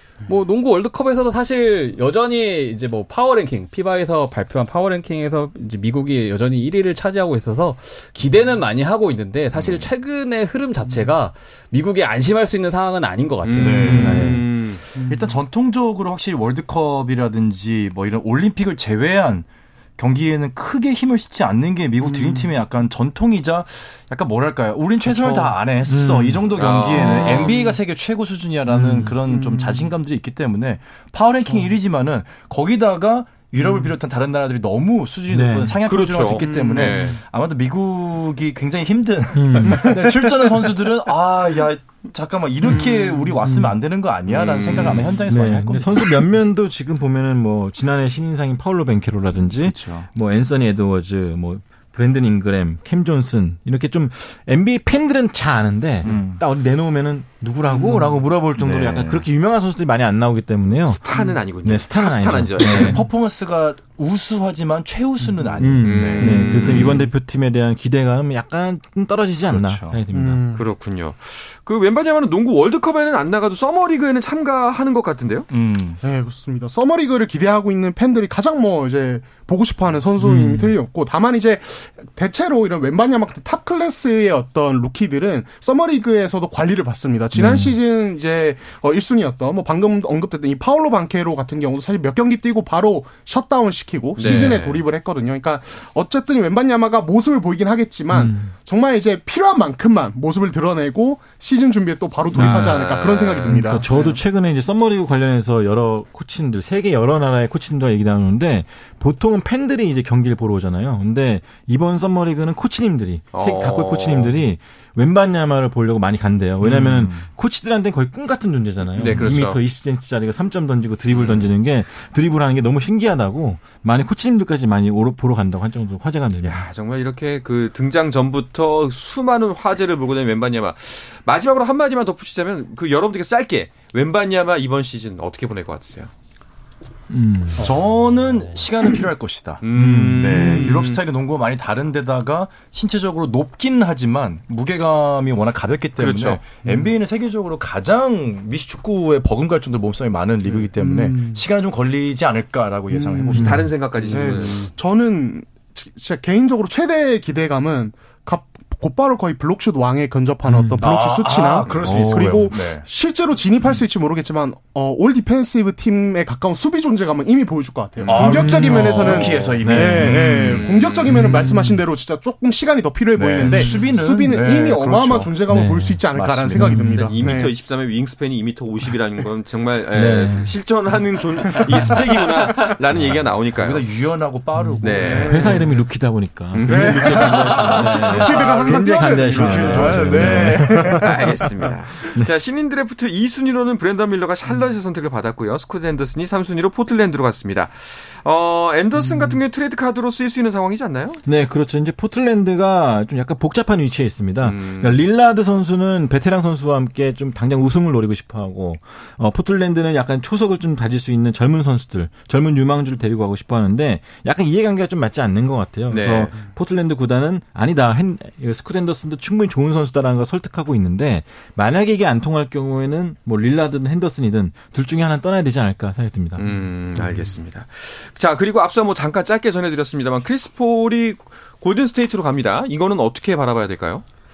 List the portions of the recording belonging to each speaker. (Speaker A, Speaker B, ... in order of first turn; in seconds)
Speaker A: 0.3-14.3
Speaker B: 9.6-9.8, 13.4-14.8, 26.6-27.5, 35.9-37.2, 44.3-45.1, 60.9-63.0, 65.8-67.1, 70.5-75.5, 94.2-94.8, 102.3-103.8, 113.3-114.4, 119.0-119.6, 121.1-121.5, 126.4-136.1, 139.6-141.0, 146.0-146.4, 153.4-154.7, 168.0-168.3, 169.1-169.6, 170.5-171.2, 176.9-183.9, 184.8-185.6, 186.5-187.6, 191.0-201.2, 204.4-205.0, 215.9-216.4, 226.4-234.0
Speaker C: 13.6-46.3, 49.4-50.1, 56.0-56.4, 58.6-59.3, 62.6-67.1, 69.5-70.0, 75.5-76.0, 116.6-117.3, 137.6-153.7, 160.8-162.9, 168.1-170.6, 173.1-175.4, 176.1-176.8, 183.5-185.6, 187.6-191.0
Speaker D: 13.7-14.5, 25.1-26.6, 28.7-29.2, 35.3-35.8, 39.4-39.9, 43.4-43.7, 45.3-61.0, 61.6-63.0, 65.6-70.4, 80.2-80.7, 87.3-87.8, 98.1-98.5, 102.3-102.8, 103.5-126.7, 137.1-137.7, 139.8-140.4, 153.3-153.7, 160.4-160.9, 161.8-162.5, 168.2-171.8, 173.4-173.8, 175.5-177.3, 179.9-180.6, 184.6-191.4, 201.2-226.6
Speaker E: 14.9-15.4, 22.0-22.5, 26.9-27.8, 29.3-29.9, 31.4-31.7, 33.6-33.9, 36.4-37.1, 39.7-40.7, 42.7-43.4, 57.7-58.2, 61.1-61.4, 65.2-65.5, 70.1-70.6, 76.0-104.2, 140.3-140.9, 146.6-146.9, 150.5-151.4, 152.9-177.5, 181.7-182.6, 185.0-185.8, 186.7-191.7